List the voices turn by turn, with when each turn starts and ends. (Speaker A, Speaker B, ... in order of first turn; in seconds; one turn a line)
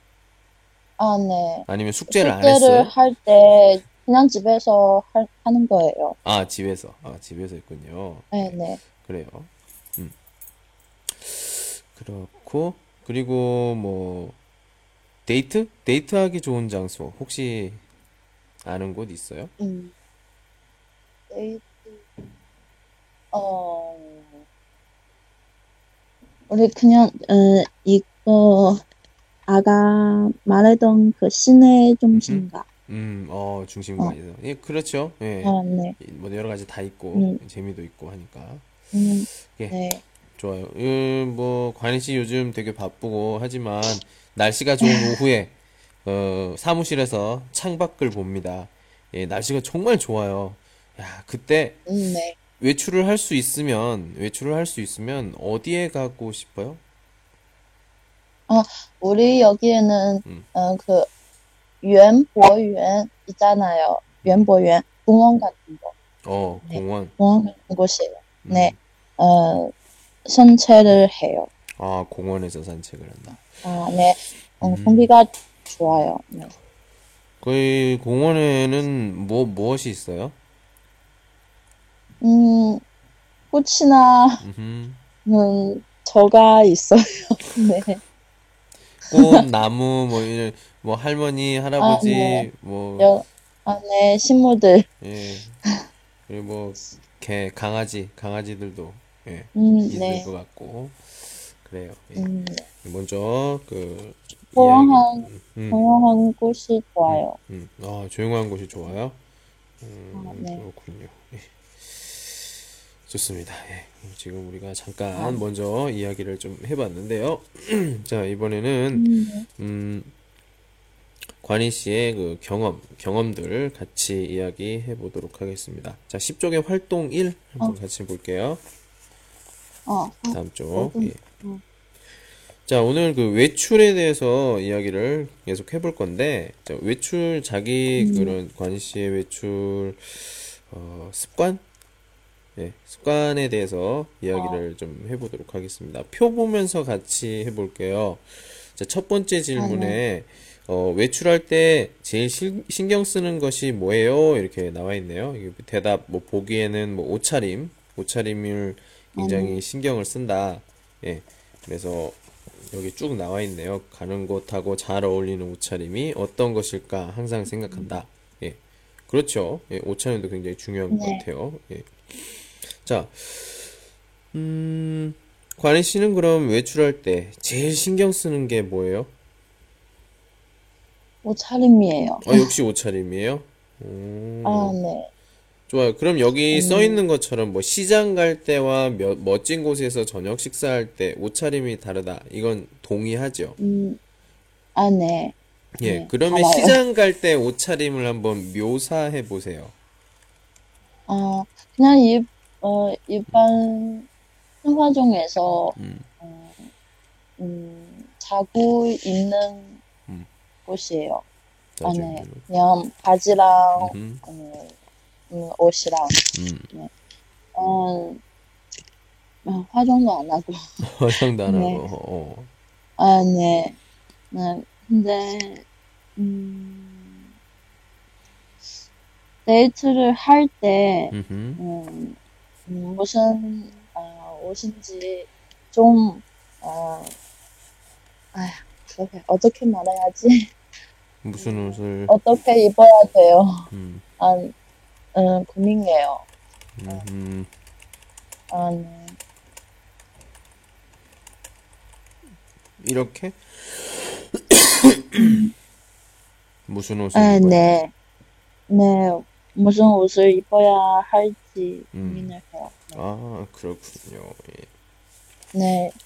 Speaker A: 1.0-6.2
Speaker B: 1.7-2.9
Speaker B: 6.2-10.1
Speaker A: 8.3-8.8
Speaker B: 11.1-14.4
Speaker B: 15.2-17.8
Speaker B: 18.6-19.5
Speaker A: 19.6-19.9
Speaker A: 21.3-22.1
Speaker A: 23.3-24.4
Speaker A: 26.5-28.8
Speaker A: 29.5-32.7
Speaker B: 32.1-38.6
Speaker A: 35.4-36.0
Speaker A: 37.1-37.4
Speaker A: 38.9-40.0
Speaker B: 39.3-39.8
Speaker B: 40.4-45.5
Speaker A: 44.8-45.2
Speaker B: 46.0-51.8
Speaker A: 51.9-52.4
Speaker B: 52.5-56.8
Speaker A: 58.5-61.1
Speaker A: 61.8-65.9
Speaker B: 64.2-64.5
Speaker B: 66.2-67.1
Speaker A: 66.7-69.7
Speaker B: 68.4-68.8
Speaker A: 70.2-71.5
Speaker B: 71.8-73.4
Speaker A: 73.6-76.5
Speaker B: 74.6-75.1
Speaker B: 77.4-80.3
Speaker A: 82.2-82.8
Speaker A: 83.5-84.4
Speaker B: 84.4-85.0
Speaker A: 85.2-88.0
Speaker B: 89.1-93.1
Speaker A: 89.1-89.4
Speaker A: 91.8-94.9
Speaker B: 95.0-95.6
Speaker B: 96.3-101.0
Speaker A: 99.5-100.3
Speaker B: 101.6-102.3
Speaker A: 102.2-102.6
Speaker B: 102.8-105.8
Speaker A: 104.5-107.4
Speaker B: 107.1-109.2
Speaker B: 109.8-112.5
Speaker A: 110.1-110.6
Speaker B: 113.1-120.1
Speaker A: 115.1-115.4
Speaker A: 118.9-119.4
Speaker B: 121.4-128.6
Speaker A: 129.8-131.6
Speaker B: 130.3-131.2
Speaker B: 132.7-141.6
Speaker A: 138.0-138.4
Speaker B: 142.6-162.2
Speaker A: 144.3-144.6
Speaker A: 149.6-150.0
Speaker A: 159.2-159.6
Speaker B: 162.7-173.7
Speaker A: 170.9-171.2
Speaker B: 174.3-179.1
Speaker A: 181.2-182.5
Speaker B: 182.2-184.8
Speaker A: 184.4-185.1
Speaker B: 185.7-193.6
Speaker A: 186.5-187.0
Speaker A: 193.6-194.0
Speaker A: 194.7-196.8
Speaker B: 195.8-199.7
Speaker A: 201.1-204.1
Speaker A: 204.6-206.7
Speaker B: 205.7-206.1
Speaker A: 207.4-209.8
Speaker A: 210.7-211.2
Speaker B: 211.8-212.4
Speaker A: 211.8-214.7
Speaker B: 213.8-214.2
Speaker A: 215.3-216.9
Speaker B: 216.3-216.7
Speaker A: 217.5-218.2
Speaker A: 219.4-220.6
Speaker B: 220.8-222.5
Speaker A: 221.4-221.8
Speaker A: 223.0-223.8
Speaker A: 224.3-225.6
Speaker A: 226.2-227.3
Speaker A: 229.4-232.2
Speaker B: 231.1-231.6
Speaker A: 232.7-237.1
Speaker A: 238.3-240.5
Speaker B: 241.2-242.1
Speaker A: 241.3-243.5
Speaker B: 243.7-244.0
Speaker A: 244.2-244.5
Speaker A: 245.1-246.2
Speaker B: 246.8-247.5
Speaker A: 248.5-249.1
Speaker B: 252.8-255.4
Speaker A: 255.2-255.5
Speaker B: 256.7-257.7
Speaker A: 257.1-257.9
Speaker A: 258.7-263.0
Speaker B: 261.9-262.3
Speaker B: 262.9-264.7
Speaker A: 265.5-265.9